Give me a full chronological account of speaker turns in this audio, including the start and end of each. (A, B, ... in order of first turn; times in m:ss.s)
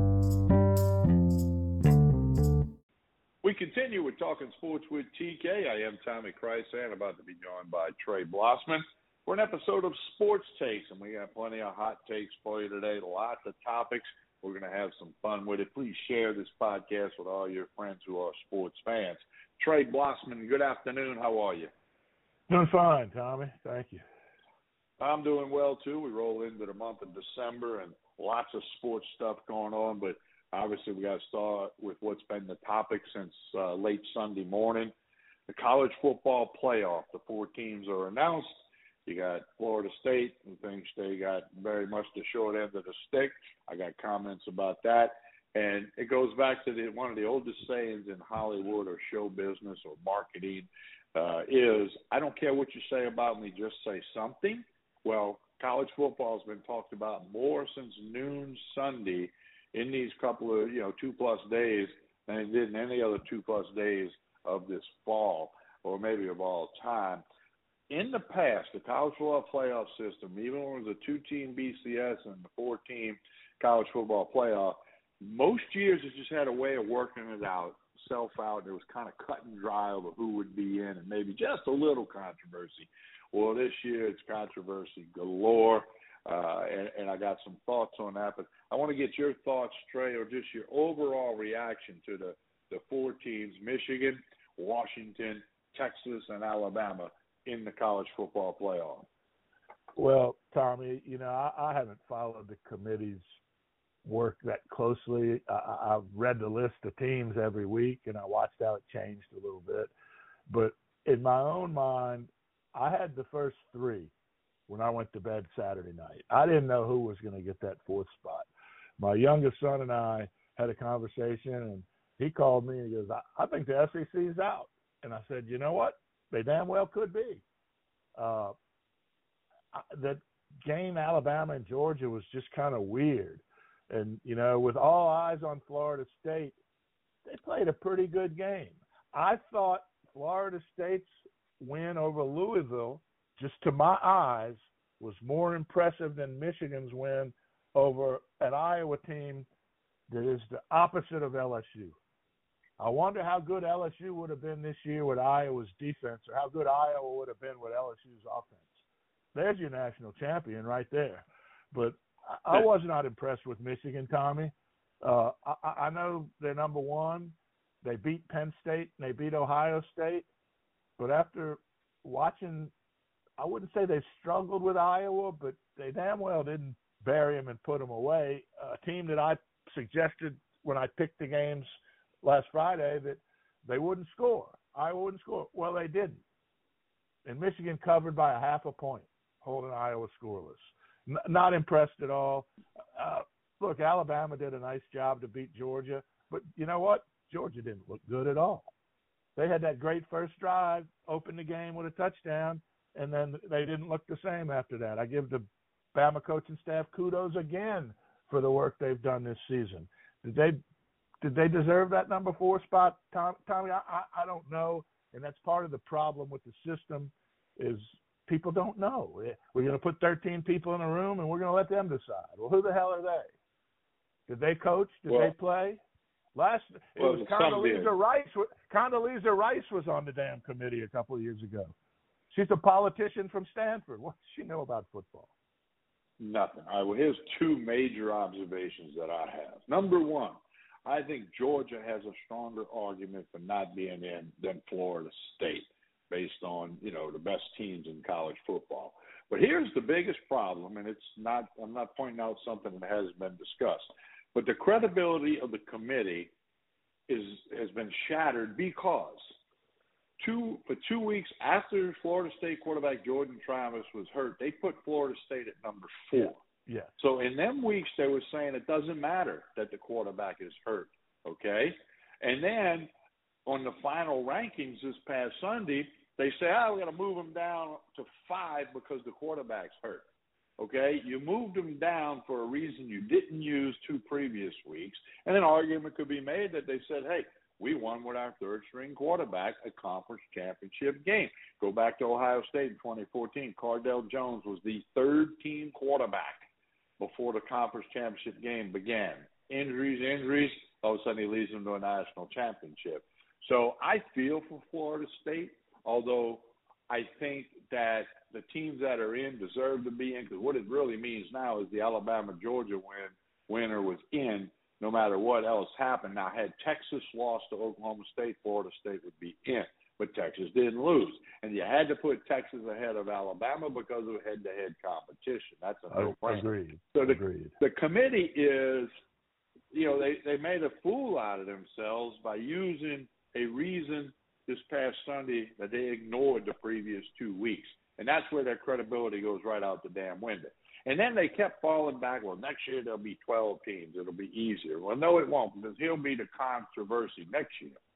0:03.4-0:21.7 A
0:22.5-0:24.0 B
0:25.0-0:34.9 A
0:35.5-0:38.5 A
0:39.0-1:07.2 A
1:07.9-1:39.1 A
1:40.0-1:43.2 B
1:44.0-1:49.9 B
1:50.5-1:54.1 B
1:54.7-1:58.5 B
1:59.0-2:07.4 B
2:08.2-2:08.5 B
2:09.7-2:16.6 B
2:17.2-2:29.5 B
2:30.1-2:32.0 B
2:32.8-2:38.8 B
2:39.3-2:50.3 B
2:51.0-2:52.7 B
2:53.4-3:01.7 B
3:02.2-3:06.2 B
3:07.2-3:18.7 B
3:19.4-3:30.6 B
3:31.2-3:43.3 B
3:44.3-3:45.8 B
3:45.1-3:45.3 A
3:46.3-3:51.7 B
3:47.0-3:47.9 A
3:52.3-3:55.3 B
3:56.2-4:16.3 A
4:17.1-4:19.2 A
4:20.2-4:26.4 A
4:26.2-4:26.9 B
4:27.0-4:32.9 A
4:33.5-4:40.0 A
4:40.6-5:28.9 A
5:25.9-5:27.5 B
5:29.7-5:47.8 A